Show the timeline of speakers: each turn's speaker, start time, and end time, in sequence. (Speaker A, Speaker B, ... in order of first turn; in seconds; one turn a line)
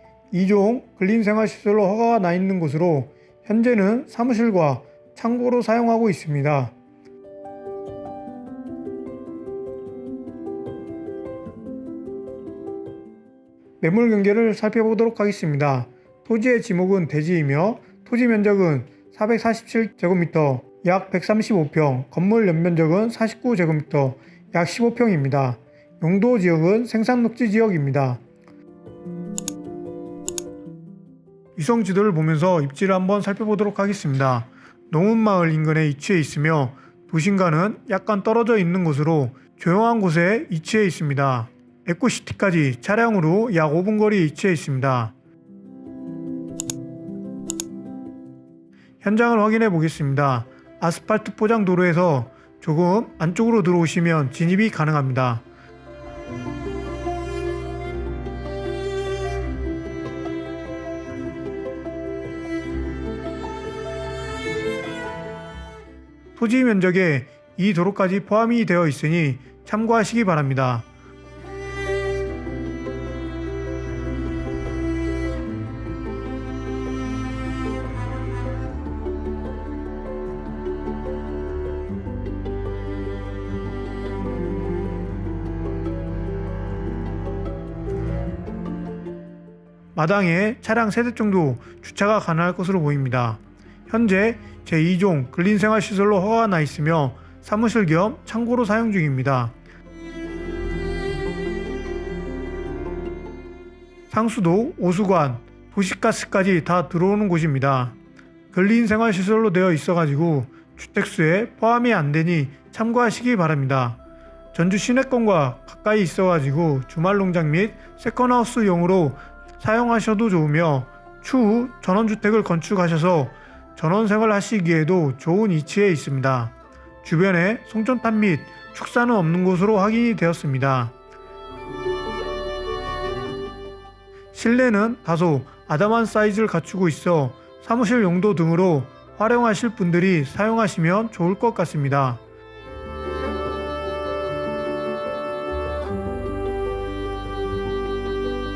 Speaker A: 0.3-6.7
Speaker A: 13.8-28.2
Speaker A: 31.6-45.1
Speaker A: 49.0-55.4
Speaker A: 66.3-70.9
Speaker A: 89.9-99.5
Speaker A: 104.1-107.9
Speaker A: 108.5-114.0
Speaker A: 114.5-130.9
Speaker A: 134.3-142.2